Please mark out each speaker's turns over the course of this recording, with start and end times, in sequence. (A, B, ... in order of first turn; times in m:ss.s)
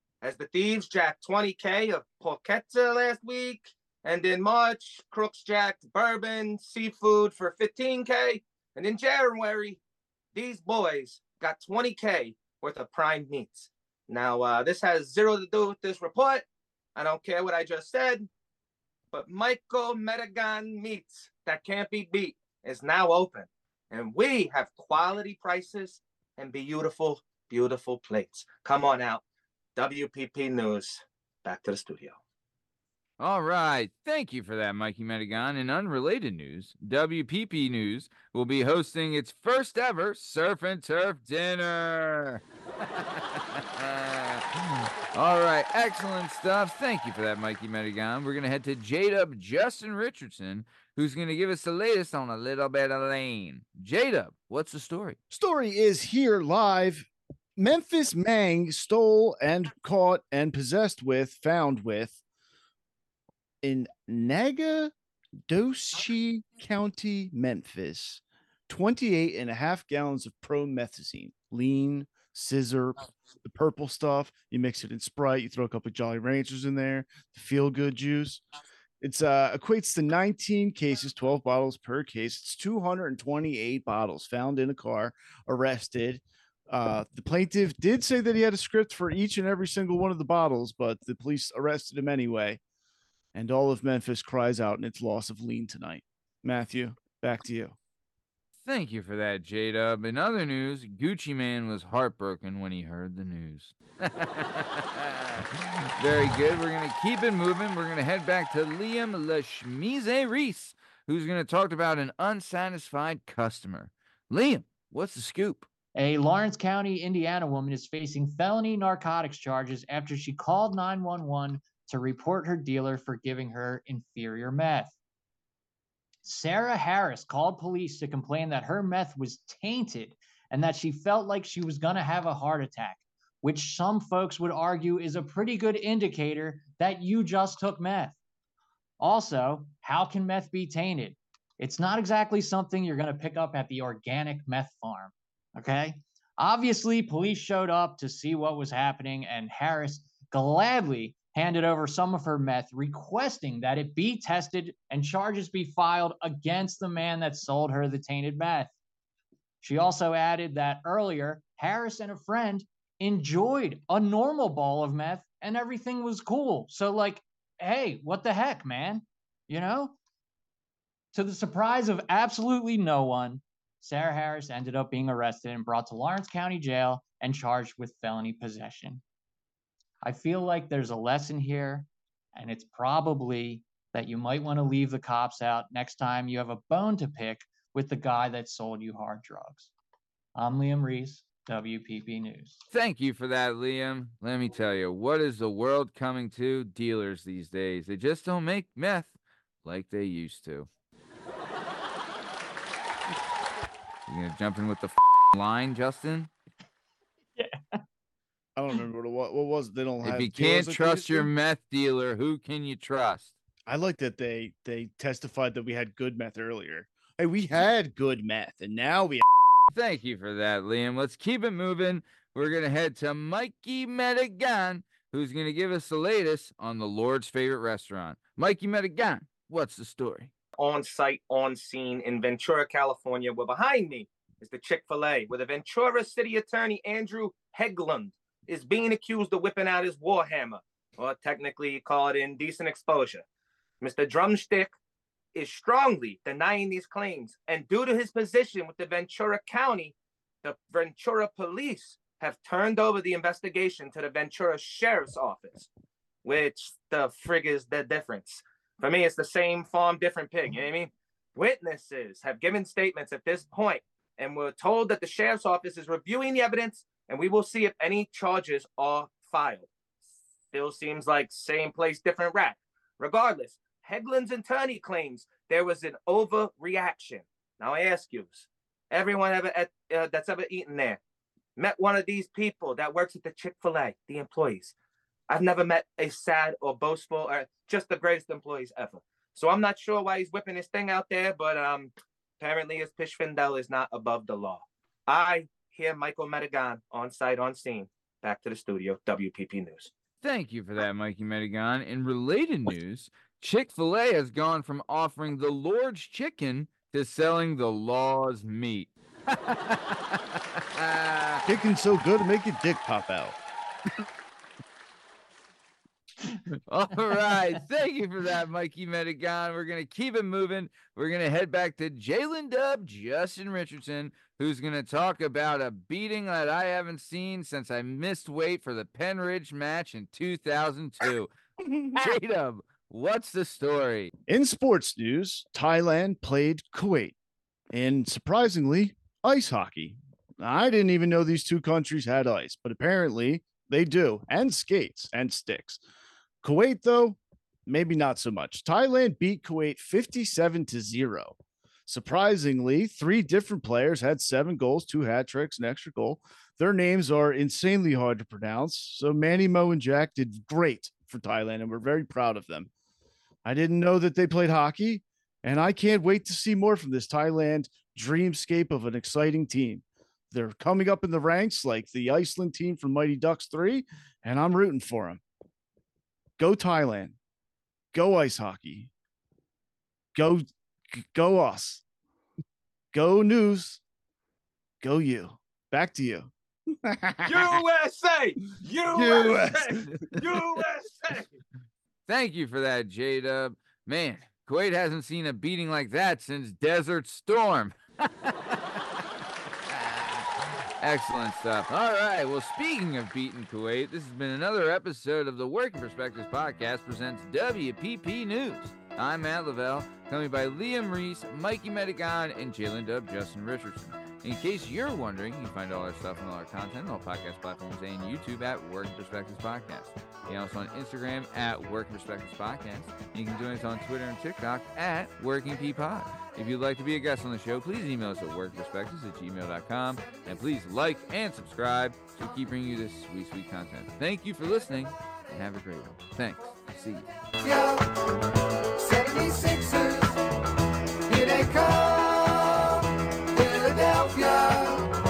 0:00.2-0:09.8 A
0:10.3-0:18.3 A
0:19.1-0:29.2 A
0:29.8-0:32.2 A
0:33.2-0:42.4 B
0:43.0-0:55.2 B
0:55.3-1:02.2 C
1:03.6-1:04.9 C
1:05.5-1:18.4 C
1:19.0-1:32.6 C
1:33.3-1:37.8 C
1:38.6-1:45.2 B
1:46.0-1:55.7 B
1:56.0-2:05.0 D
2:06.2-2:18.2 D
2:19.0-2:38.8 D
2:39.6-2:50.0 D
2:51.1-2:59.0 D
3:00.0-3:09.7 D
3:10.4-3:12.6 D
3:12.7-3:20.7 B
3:24.1-3:26.3 B
3:27.4-3:27.8 D
3:28.6-3:31.3 C
3:30.0-3:33.4 B
3:33.7-3:39.2 C
3:39.7-3:50.3 B
3:50.6-4:03.2 A
4:03.8-4:04.7 A
4:05.3-4:15.7 A
4:16.2-4:29.7 A
4:30.5-4:41.0 A
4:41.6-4:44.7 A
4:45.3-4:59.9 A
5:00.2-5:10.2 B
5:10.8-5:11.4 B
5:11.5-5:13.4 C
5:16.7-5:31.3 B
5:31.7-5:32.2 C
5:31.9-5:34.1 B
5:34.3-5:37.2 C
5:37.7-5:45.8 C
5:46.4-5:51.4 C
5:51.9-6:02.7 C
6:03.4-6:15.2 C
6:16.4-6:17.2 C
6:17.9-6:18.9 C
6:20.2-6:21.8 C
6:22.9-6:23.8 C
6:24.8-6:26.3 C
6:26.8-6:27.6 C
6:27.2-6:31.4 A
6:28.9-6:30.2 C
6:32.1-6:38.6 B
6:39.7-6:40.2 B
6:40.8-7:17.1 B
7:17.4-7:17.9 E
7:18.8-7:20.2 E
7:21.1-7:24.9 E